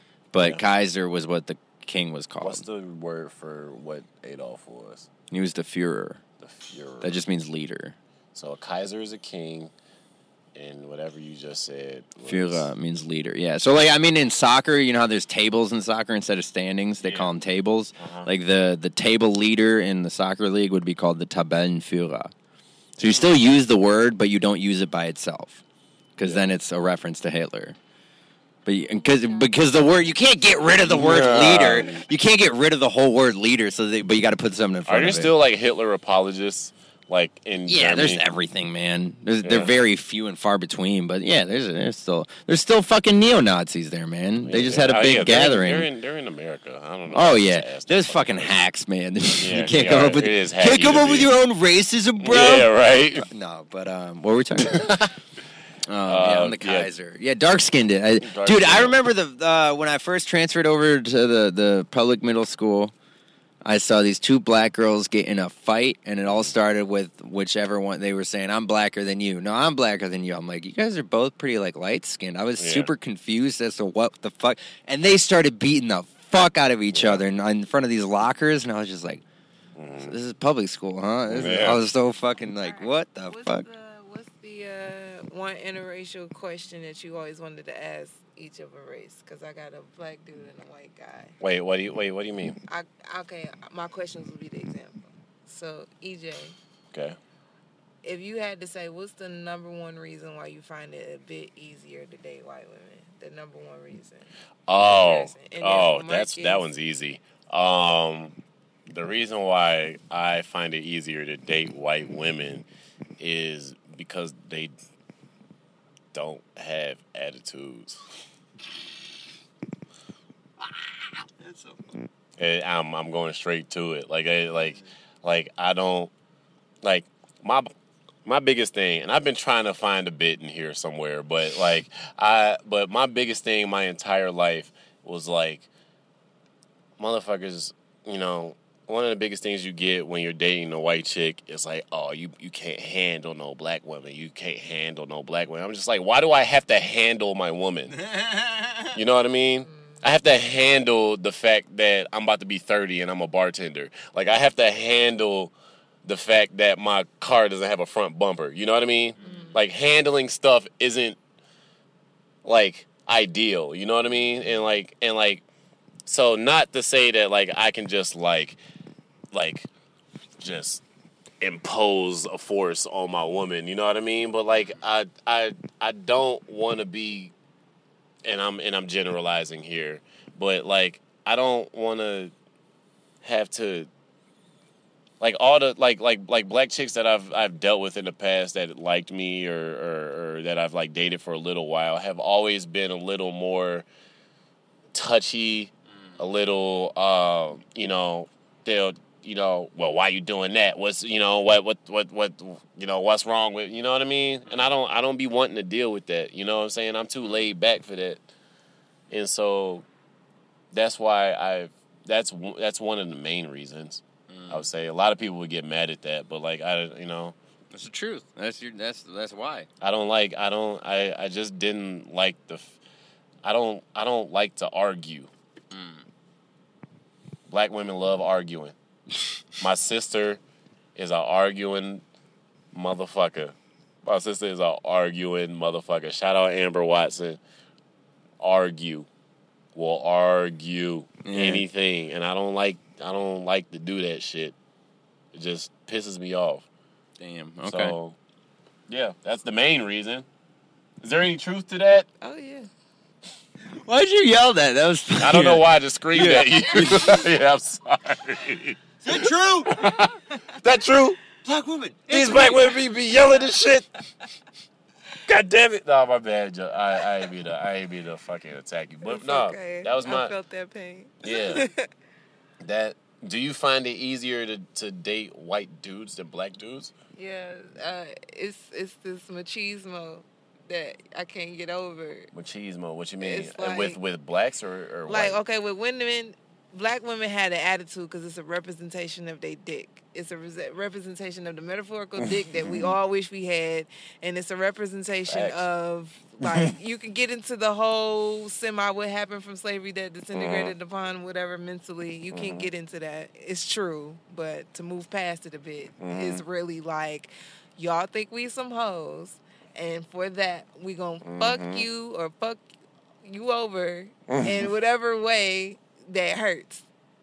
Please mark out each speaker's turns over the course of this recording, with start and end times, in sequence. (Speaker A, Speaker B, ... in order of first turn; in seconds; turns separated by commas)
Speaker A: 0.3-2.6, Speaker B: 2.4-5.1, Speaker A: 5.3-6.2, Speaker B: 6.4-7.2, Speaker A: 7.0-8.0, Speaker B: 8.3-9.7, Speaker B: 10.6-12.7, Speaker A: 12.2-22.3, Speaker B: 17.0-17.4, Speaker B: 18.0-18.3, Speaker A: 23.0-25.6, Speaker A: 26.2-27.8, Speaker A: 28.7-35.3, Speaker C: 28.9-29.5, Speaker B: 30.8-32.0, Speaker B: 34.9-38.2, Speaker A: 37.7-45.9, Speaker B: 39.4-39.7, Speaker B: 44.4-48.5, Speaker A: 47.1-54.9, Speaker B: 49.4-51.3, Speaker B: 52.2-53.3, Speaker B: 54.6-55.1, Speaker A: 55.9-62.9, Speaker B: 56.1-56.9, Speaker B: 58.2-59.0, Speaker A: 63.6-79.2, Speaker B: 66.2-66.5, Speaker B: 72.6-72.9, Speaker B: 76.9-77.2, Speaker B: 79.8-80.2, Speaker A: 80.0-83.7, Speaker B: 81.3-81.8, Speaker C: 82.6-91.4, Speaker B: 91.4-92.6, Speaker C: 92.7-96.6, Speaker B: 96.9-97.2, Speaker C: 98.0-106.7, Speaker B: 104.7-108.4, Speaker B: 108.9-112.7, Speaker B: 113.2-114.7, Speaker B: 116.1-118.0, Speaker A: 121.4-122.0, Speaker B: 122.4-126.1, Speaker B: 126.8-127.7, Speaker B: 128.2-135.7, Speaker B: 137.0-147.9, Speaker A: 147.9-148.9, Speaker B: 148.9-155.5, Speaker C: 149.7-150.0, Speaker B: 156.0-161.2, Speaker A: 159.2-159.6, Speaker C: 159.2-159.5, Speaker B: 162.4-165.4, Speaker B: 166.1-168.6, Speaker B: 169.3-169.7, Speaker B: 170.4-170.8, Speaker B: 171.4-177.3, Speaker B: 178.2-182.3, Speaker B: 183.2-183.9, Speaker B: 185.2-193.9, Speaker B: 194.9-208.2, Speaker B: 209.1-209.9, Speaker B: 210.7-217.4, Speaker A: 214.3-214.7, Speaker A: 217.7-219.7, Speaker B: 219.8-222.8, Speaker B: 223.4-225.3, Speaker A: 225.7-226.0, Speaker B: 227.5-228.8, Speaker B: 229.6-230.4, Speaker B: 231.0-232.0, Speaker B: 232.7-237.4, Speaker B: 238.4-239.1, Speaker B: 239.8-244.6, Speaker A: 241.2-241.7, Speaker B: 245.3-246.7, Speaker A: 247.2-248.0, Speaker B: 247.6-248.2, Speaker B: 248.9-250.3, Speaker B: 251.0-252.1, Speaker C: 252.2-252.7, Speaker A: 253.7-257.2, Speaker B: 255.2-261.2, Speaker A: 259.0-259.8, Speaker A: 261.4-262.6, Speaker B: 262.1-263.9, Speaker B: 265.3-270.3, Speaker C: 269.0-271.9, Speaker B: 271.2-271.7, Speaker B: 272.6-276.9, Speaker C: 277.2-282.3, Speaker B: 282.3-285.4, Speaker C: 283.2-284.0, Speaker C: 285.1-312.6, Speaker B: 292.2-293.0, Speaker B: 295.3-295.7, Speaker B: 296.4-296.8, Speaker B: 300.3-300.7, Speaker B: 302.3-302.7, Speaker B: 306.0-306.4, Speaker B: 311.2-311.9, Speaker C: 313.2-316.9, Speaker B: 314.3-314.7